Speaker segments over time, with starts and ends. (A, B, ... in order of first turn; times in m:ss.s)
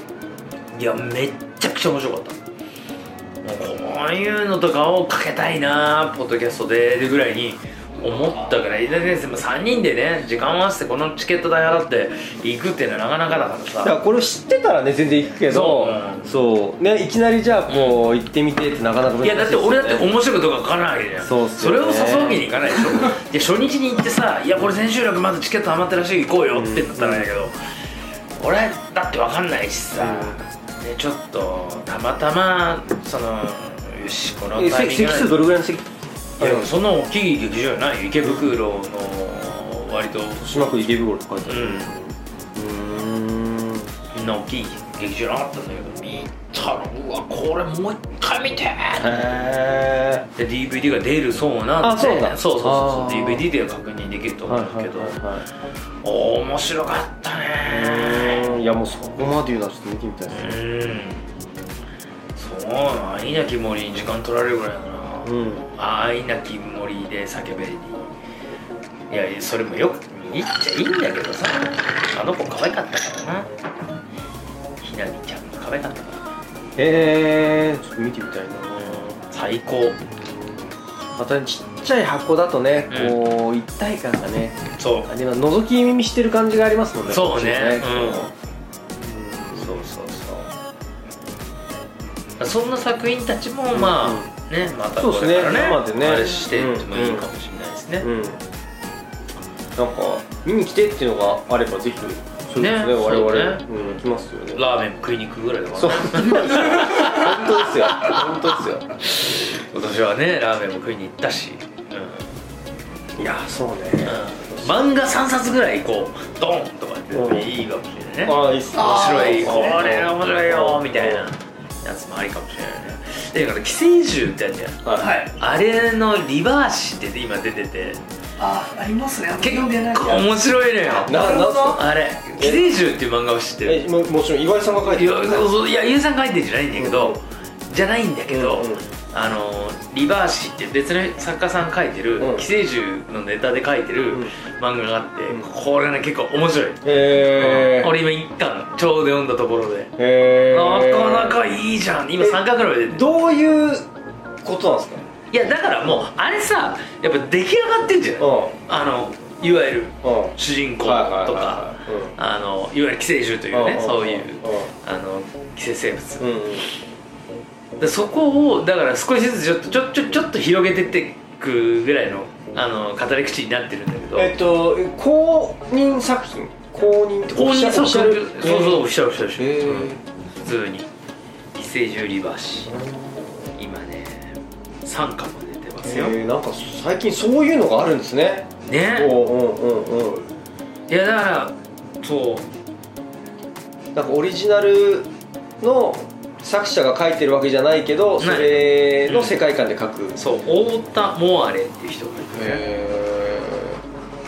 0:00.7-0:02.4 A
0:03.4-0:14.0 A
0:13.8-0:20.1 B
0:15.4-0:16.3 A
0:17.7-0:18.0 A
0:19.2-0:27.5 A
0:21.2-0:23.0 B
0:26.5-0:27.3 B
0:28.4-0:35.4 A
0:30.0-0:30.4 B
0:34.5-0:36.7 B
0:36.4-0:41.9 A
0:40.4-0:43.9 B
0:44.1-0:49.3 A
0:49.0-0:50.2 B
0:50.4-0:55.3 A
0:51.8-0:53.4 B
0:54.5-0:55.4 B
0:56.0-0:58.5 A
0:57.6-1:00.6 B
1:00.3-1:01.3 A
1:02.4-1:08.1 A
1:05.2-1:05.6 B
1:09.1-1:13.5 A
1:14.8-1:16.2 A
1:16.8-1:19.0 B
1:18.8-1:20.0 A
1:21.2-1:28.3 B
1:22.9-1:23.2 A
1:24.8-1:25.1 A
1:27.1-1:28.3 A
1:29.0-1:29.8 B
1:29.5-1:30.5 A
1:32.4-1:38.1 A
1:33.7-1:34.3 B
1:35.0-1:37.2 B
1:38.0-1:38.4 B
1:39.7-1:44.6 B
1:42.6-1:43.9 A
1:44.5-1:48.5 A
1:45.7-1:49.4 B
1:49.1-1:52.2 A
1:53.2-1:54.8 B
1:54.0-2:08.0 A
1:57.1-1:57.5 B
1:58.2-2:01.3 B
1:58.7-1:59.8 C
2:04.8-2:05.1 B
2:05.0-2:05.3 C
2:08.4-2:10.4 C
2:09.4-2:11.2 A
2:11.0-2:11.8 C
2:11.0-2:11.8 B
2:11.7-2:13.8 A
2:12.4-2:12.6 B
2:13.6-2:15.5 B
2:14.9-2:29.9 A
2:16.7-2:17.2 B
2:18.3-2:18.8 B
2:22.2-2:22.4 B
2:26.8-2:27.9 B
2:30.0-2:31.4 B
2:30.5-2:33.0 A
2:32.2-2:33.9 B
2:34.4-2:35.0 B
2:35.3-2:46.4 A
2:38.2-2:38.5 B
2:40.0-2:42.1 B
2:43.5-2:44.7 B
2:46.2-2:46.6 B
2:47.8-2:54.3 A
2:54.1-3:00.0 B
2:57.3-3:00.9 A
3:01.5-3:02.7 A
3:02.7-3:03.3 B
3:03.6-3:06.2 A
3:05.8-3:10.3 B
3:08.6-3:09.1 A
3:10.9-3:12.5 A
3:13.9-3:15.1 B
3:15.6-3:20.2 B
3:18.2-3:19.4 A
3:20.2-3:22.6 A
3:22.3-3:23.8 B